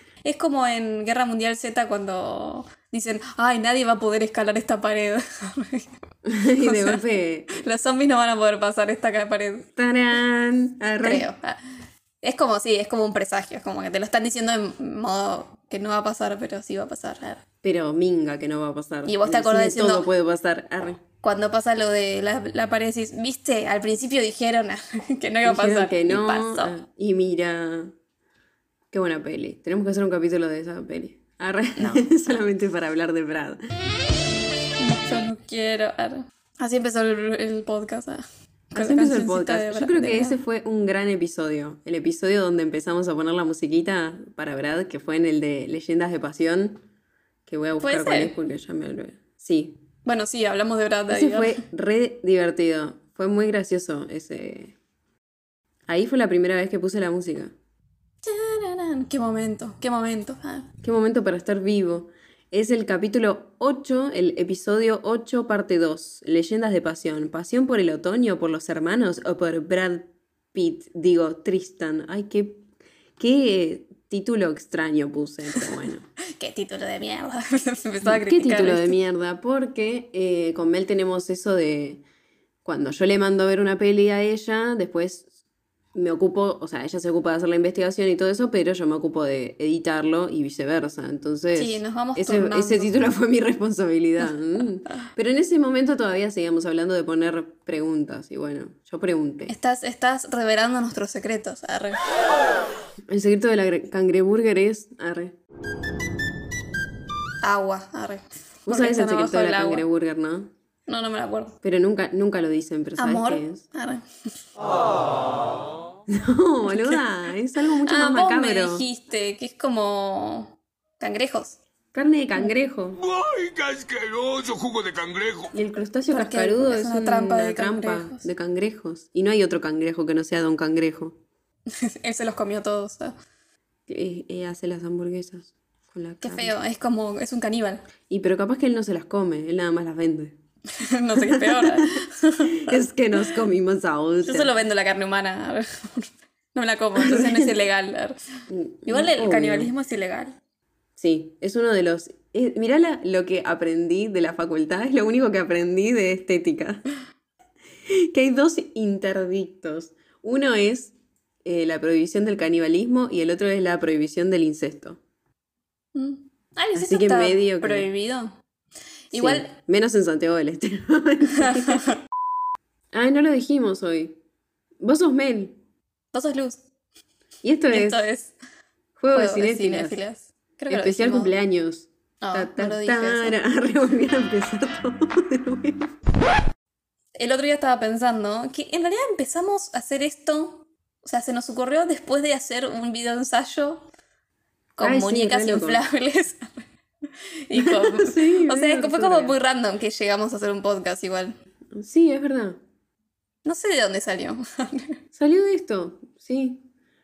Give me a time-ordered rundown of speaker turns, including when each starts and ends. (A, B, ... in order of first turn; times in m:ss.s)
0:00.2-0:05.9 A
0:06.3-0:07.5 B
0:06.6-0:09.7 A
0:09.8-0:11.3 B
0:11.0-0:11.6 A
0:12.2-0:17.4 A
0:17.6-0:21.0 B
0:19.1-0:20.1 A
0:21.2-0:26.8 A
0:25.4-0:27.9 B
0:28.9-0:33.6 B
0:31.8-0:32.1 A
0:34.8-0:40.4 A
0:38.8-0:46.8 B
0:47.5-0:49.8 B
0:47.8-0:48.3 A
0:50.1-0:51.6 A
0:51.1-0:54.7 B
0:55.9-0:57.5 B
0:58.2-1:00.7 A
1:00.8-1:12.6 B
1:13.2-1:16.1 B
1:16.4-1:19.0 A
1:18.0-1:22.0 B
1:22.6-1:25.3 B
1:25.9-1:39.5 B
1:31.6-1:32.9 A
1:39.5-1:42.0 A
1:43.1-1:45.3 B
1:47.4-1:49.8 A
1:48.7-1:50.5 B
1:50.9-1:51.6 A
1:51.6-1:53.6 B
1:53.0-1:54.0 A
1:56.1-1:58.8 B
1:56.7-1:57.0 A
1:57.9-2:01.6 A
2:01.9-2:03.0 B
2:03.0-2:05.5 C
2:05.5-2:11.2 B
2:06.1-2:08.3 A
2:11.7-2:13.2 A
2:13.9-2:16.6 B
2:16.2-2:17.8 A
2:18.1-2:20.4 B
2:20.8-2:22.8 A
2:21.2-2:21.8 B
2:22.6-2:24.6 B
2:24.2-2:28.2 A
2:27.0-2:27.5 B
2:28.5-2:29.7 B
2:28.9-2:30.4 A
2:31.0-2:36.8 B
2:37.9-2:45.0 B
2:46.0-2:48.4 A
2:46.8-2:47.9 B
2:49.1-2:49.5 A
2:49.1-2:51.8 B
2:52.9-2:54.2 B
2:54.8-2:55.6 B
2:56.1-2:56.6 A
2:57.4-2:58.1 B
2:57.7-2:58.3 A
2:59.0-3:00.0 B
2:59.1-3:01.3 A
3:00.7-3:05.9 B
3:02.2-3:03.4 A
3:07.2-3:13.9 A
3:14.8-3:16.6 A
3:14.8-3:15.8 B
3:17.5-3:21.3 A
3:17.5-3:19.4 B
3:21.7-3:22.6 B
3:23.4-3:25.0 A
3:25.1-3:26.6 B